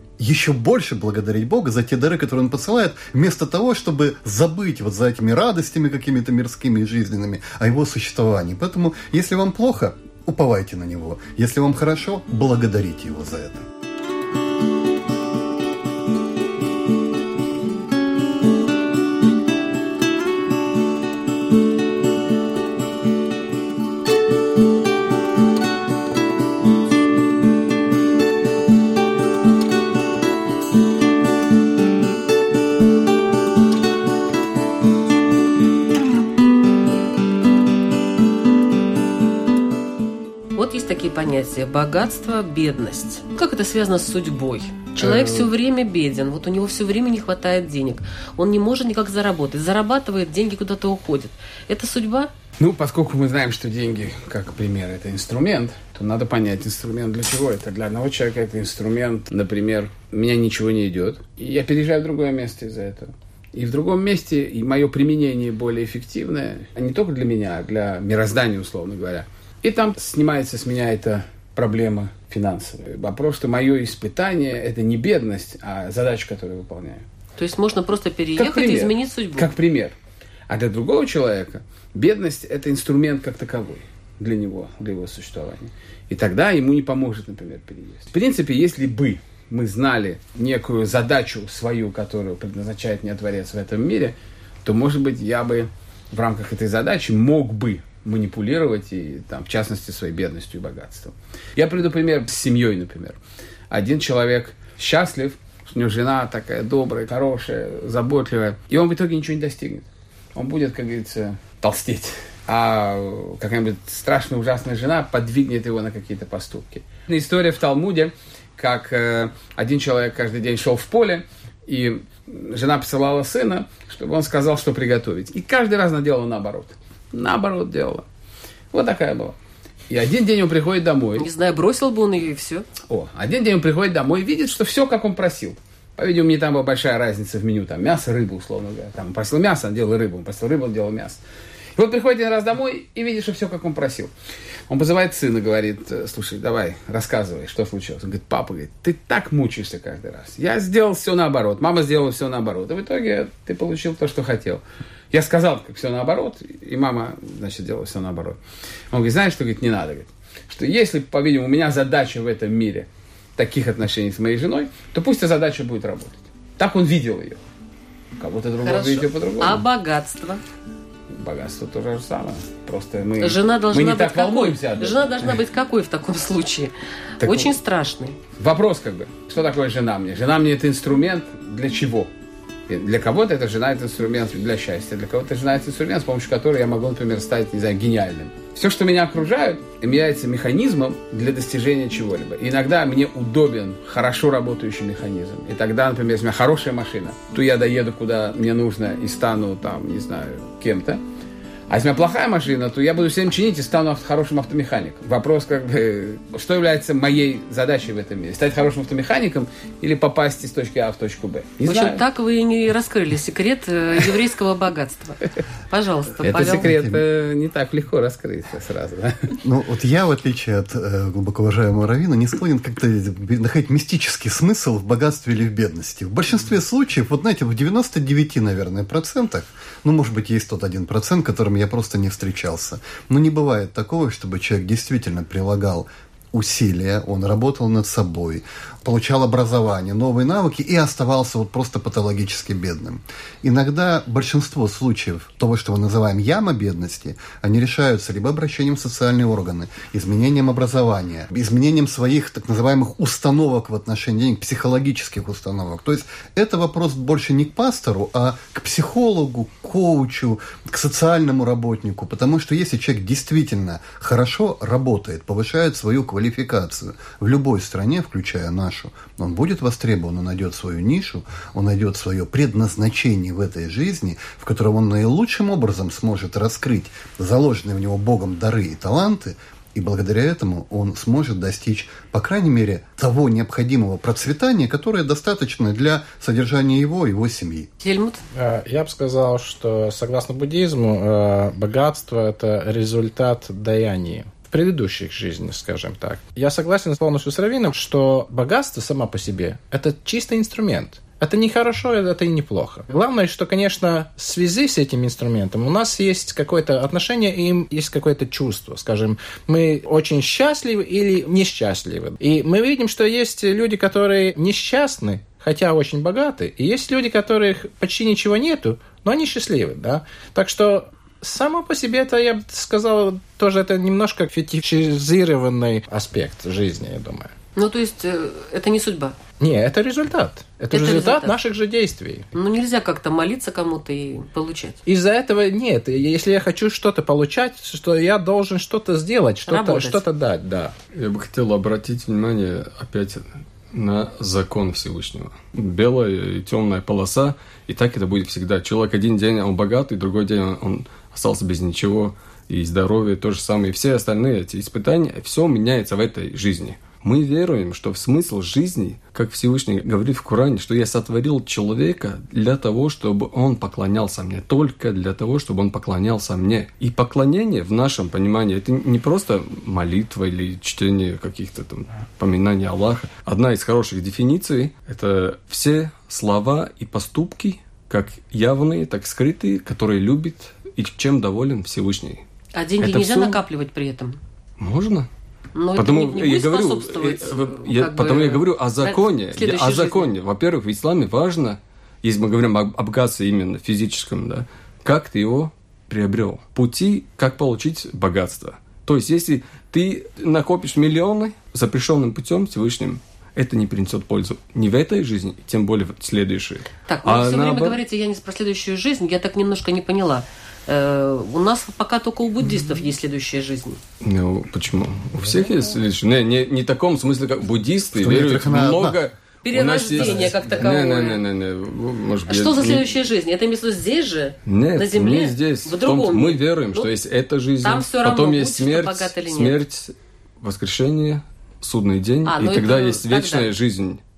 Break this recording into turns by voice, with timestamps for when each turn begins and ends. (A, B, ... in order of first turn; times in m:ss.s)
0:00.2-0:13.7 A
0:40.6-0:52.3 B
0:45.0-0:45.5 C
0:52.6-1:17.0 C
1:17.4-1:19.5 B
1:18.4-1:20.0 C
1:20.5-1:43.2 C
1:43.7-2:08.0 C
2:08.7-2:09.4 C
2:09.9-2:11.3 C
2:11.2-2:12.7 B
2:12.9-2:21.2 C
2:21.8-2:24.1 C
2:24.7-2:38.4 C
2:38.9-2:47.4 C
2:48.2-2:49.6 C
2:48.6-2:50.4 B
2:51.1-2:55.4 C
2:53.2-2:58.2 B
2:57.2-2:57.5 C
2:58.4-3:02.1 C
3:02.7-3:21.0 C
3:21.7-3:32.0 C
3:31.6-3:36.7 B
3:36.2-3:39.4 C
3:36.7-3:37.0 A
3:39.4-4:47.7 A
4:47.8-4:48.2 B
4:48.3-5:27.3 D
5:27.6-5:29.2 B
5:29.4-5:32.3 D
5:30.7-5:31.4 B
5:32.3-5:34.8 B
5:34.8-5:40.8 D
5:39.5-5:40.0 B
5:40.9-6:22.2 E
6:22.5-6:24.2 B
6:22.8-6:23.4 E
6:24.6-6:25.1 E
6:25.6-6:30.1 B
6:25.8-6:47.8 E
6:46.9-6:53.8 B
6:54.0-7:02.9 E
6:57.9-6:59.0 A
6:59.4-7:01.2 B
7:00.0-7:00.4 A
7:02.3-7:06.9 B
7:04.5-7:14.0 E
7:07.6-7:09.6 B
7:12.2-7:13.5 B